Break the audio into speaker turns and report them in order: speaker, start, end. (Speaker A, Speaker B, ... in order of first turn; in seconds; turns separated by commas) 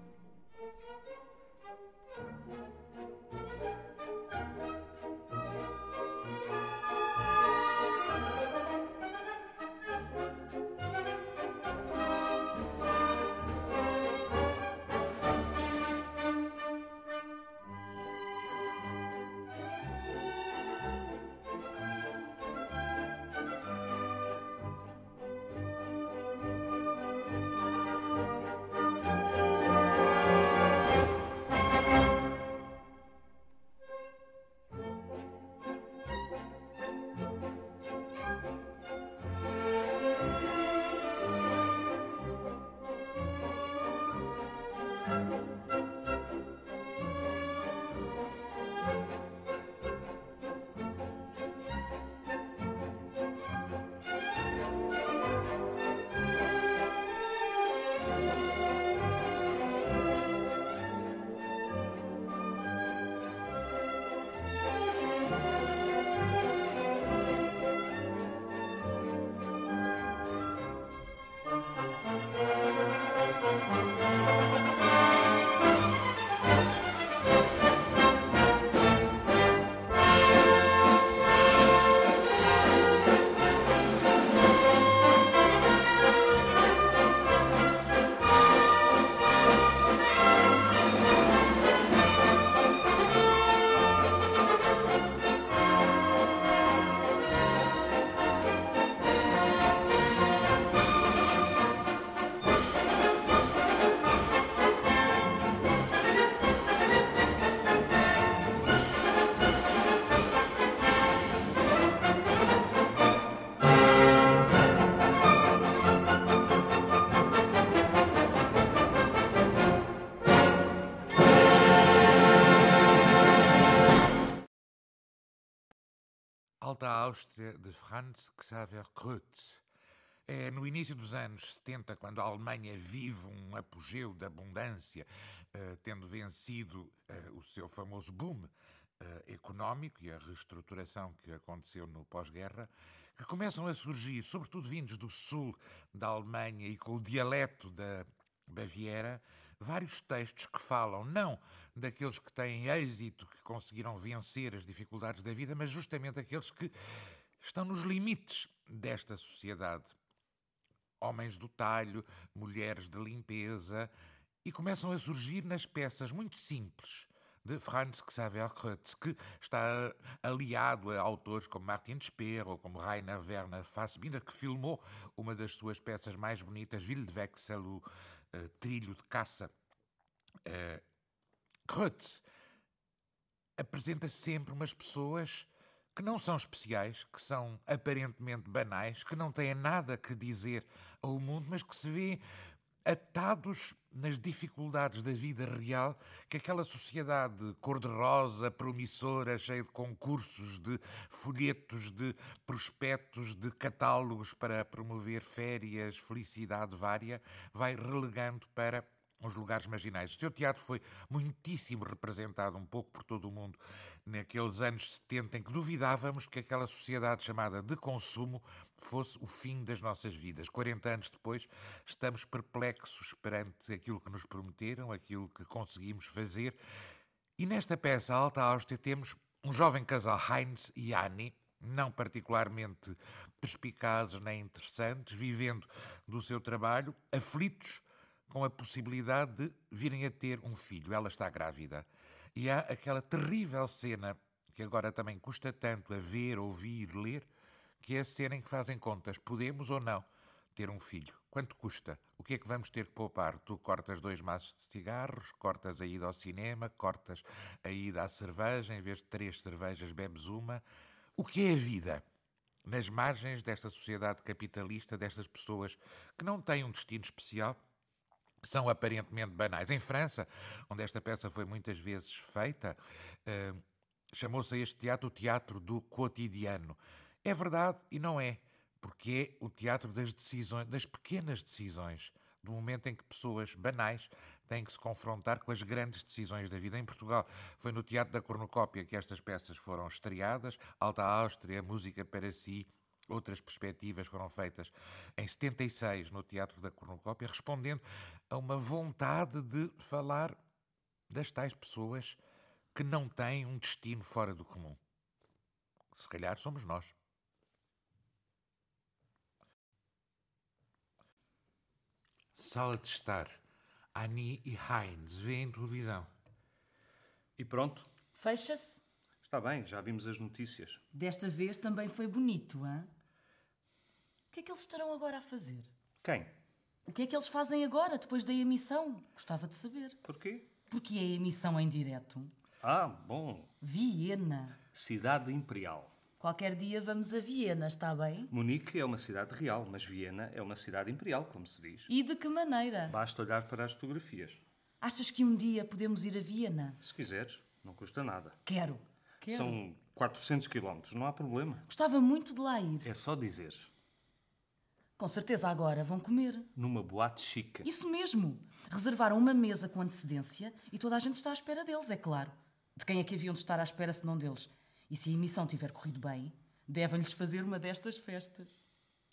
Speaker A: 126.6-129.6, Speaker A: 130.2-156.7, Speaker A: 157.4-159.9, Speaker A: 161.0-163.9, Speaker A: 164.4-179.5, Speaker A: 180.4-180.8, Speaker A: 181.7-182.2, Speaker A: 183.6-192.2, Speaker A: 192.8-226.6, Speaker A: 227.4-247.3, Speaker A: 247.8-260.6, Speaker A: 261.1-262.0, Speaker A: 262.6-267.6, Speaker A: 268.4-300.4, Speaker A: 301.1-302.2, Speaker A: 302.7-304.8, Speaker A: 305.9-306.9, Speaker A: 312.3-313.4, Speaker A: 313.9-316.1, Speaker B: 317.4-317.9, Speaker C: 318.1-318.8, Speaker B: 319.2-320.8, Speaker C: 320.9-322.9, Speaker C: 324.3-325.7, Speaker B: 326.0-326.3, Speaker C: 326.9-330.0, Speaker B: 330.0-330.5, Speaker C: 330.7-332.3, Speaker B: 332.6-333.5, Speaker C: 333.6-334.6, Speaker B: 334.7-335.9, Speaker C: 336.2-338.3, Speaker B: 338.3-341.9, Speaker C: 341.9-342.9, Speaker B: 342.9-344.4, Speaker C: 344.8-346.8, Speaker B: 346.8-348.4, Speaker C: 348.4-349.6, Speaker B: 349.3-351.6, Speaker C: 351.7-352.9, Speaker B: 352.8-353.7, Speaker C: 355.0-356.5, Speaker B: 356.6-357.7, Speaker C: 357.6-368.6